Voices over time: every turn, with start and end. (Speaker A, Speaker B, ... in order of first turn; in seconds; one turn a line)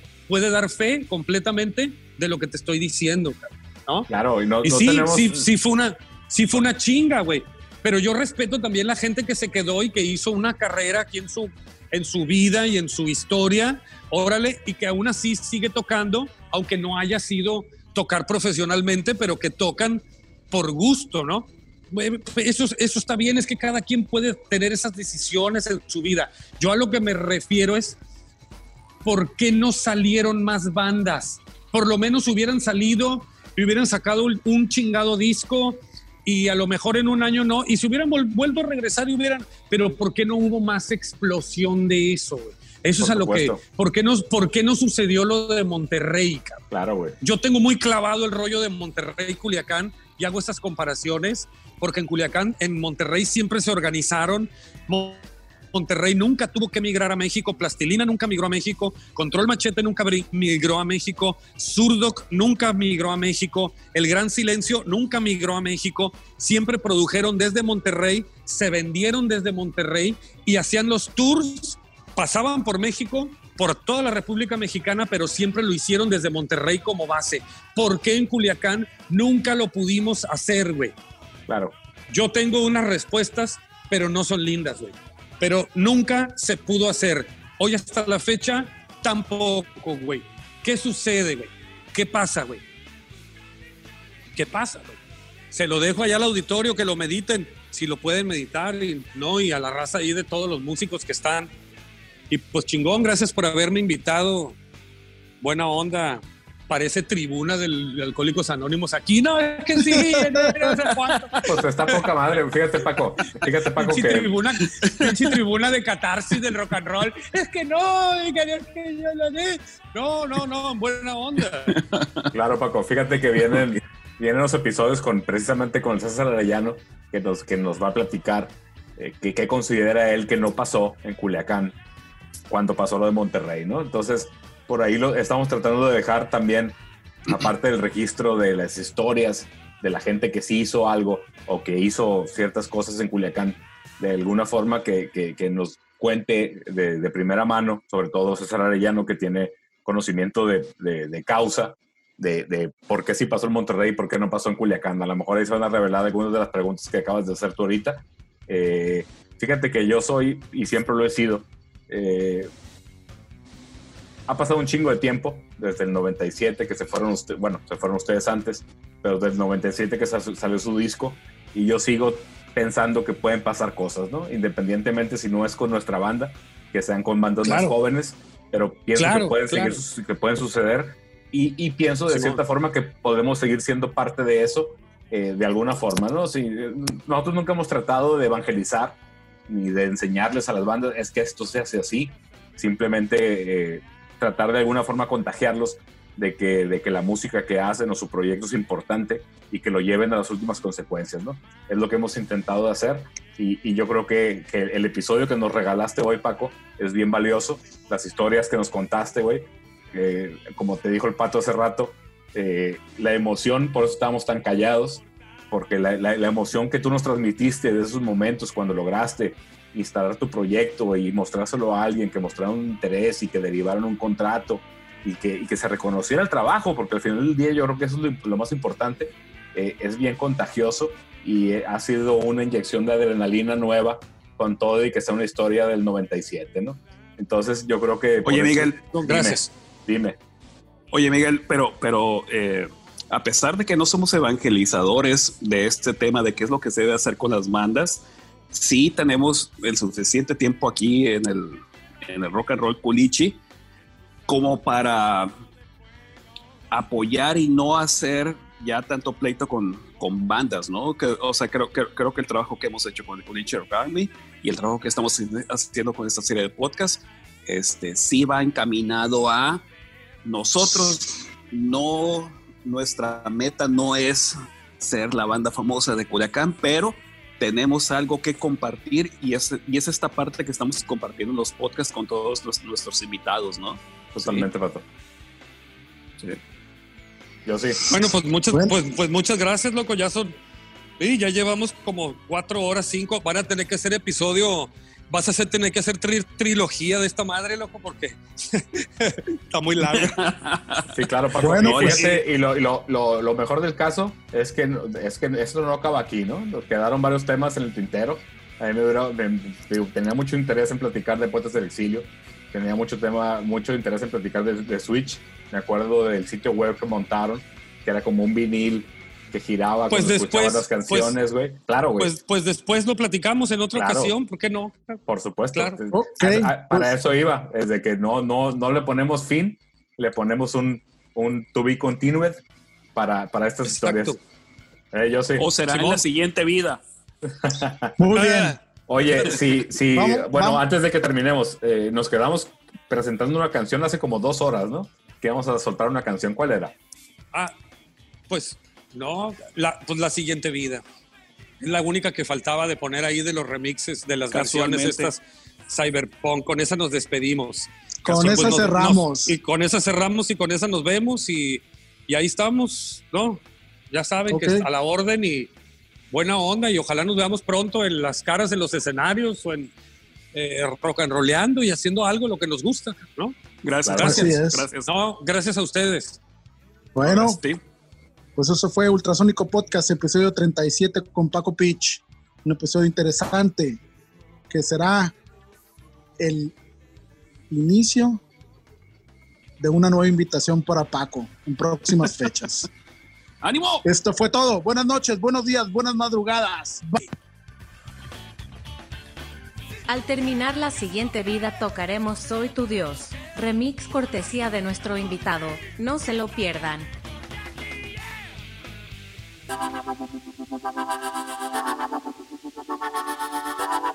Speaker A: 0.3-4.1
Speaker B: 4.1-5.5
Speaker A: 4.6-28.0
Speaker A: 29.0-46.6
Speaker B: 43.0-43.6
Speaker B: 46.7-47.1
Speaker A: 47.2-80.9
Speaker B: 81.5-81.7
Speaker A: 82.1-92.6
Speaker A: 94.3-95.0
Speaker A: 95.5-101.5
Speaker A: 102.3-104.6
Speaker A: 105.4-112.0
Speaker B: 111.4-114.3
Speaker A: 113.4-121.8
Speaker C: 121.7-122.3
Speaker B: 122.3-131.8
Speaker B: 132.5-162.5
Speaker B: 164.3-188.9
Speaker A: 177.4-177.7
Speaker A: 178.9-179.8
Speaker A: 182.1-182.4
Speaker B: 189.5-240.2
Speaker C: 238.2-238.8
Speaker A: 238.8-239.5
Speaker C: 240.9-253.4
Speaker C: 254.3-255.3
Speaker C: 256.7-269.6
Speaker C: 270.2-284.4
Speaker B: 284.1-284.8
Speaker B: 287.4-287.8
Speaker A: 287.9-290.3
Speaker A: 291.0-300.2
Speaker C: 299.9-300.9
Speaker B: 300.9-322.1
Speaker D: 301.4-302.1
Speaker C: 301.6-302.0
Speaker A: 319.9-321.1
Speaker A: 322.0-325.0
Speaker B: 323.7-324.1
Speaker B: 325.1-332.4
Speaker A: 325.5-325.8
Speaker D: 325.9-326.9
Speaker B: 332.9-334.1
Speaker A: 333.6-334.2
Speaker B: 334.9-335.5
Speaker C: 335.4-336.8
Speaker A: 335.7-336.0
Speaker B: 337.3-338.1
Speaker D: 338.0-338.6
Speaker A: 338.1-338.6
Speaker B: 338.9-346.7
Speaker D: 339.9-340.6
Speaker A: 348.3-350.8
Speaker A: 351.6-365.5
Speaker C: 354.3-355.1
Speaker D: 358.0-359.4
Speaker D: 364.3-364.7
Speaker A: 366.1-369.7
Speaker A: 370.3-373.4
Speaker C: 373.6-375.0
Speaker B: 373.8-374.2
Speaker A: 373.9-374.2
Speaker D: 374.0-374.6
Speaker A: 374.9-376.2
Speaker D: 376.9-377.4
Speaker C: 377.0-377.6
Speaker D: 378.4-383.8
Speaker D: 384.5-385.1
Speaker D: 386.2-386.5
Speaker D: 387.5-388.2
Speaker D: 389.6-392.7
Speaker C: 393.4-393.8
Speaker D: 393.8-397.1
Speaker E: 399.9-406.9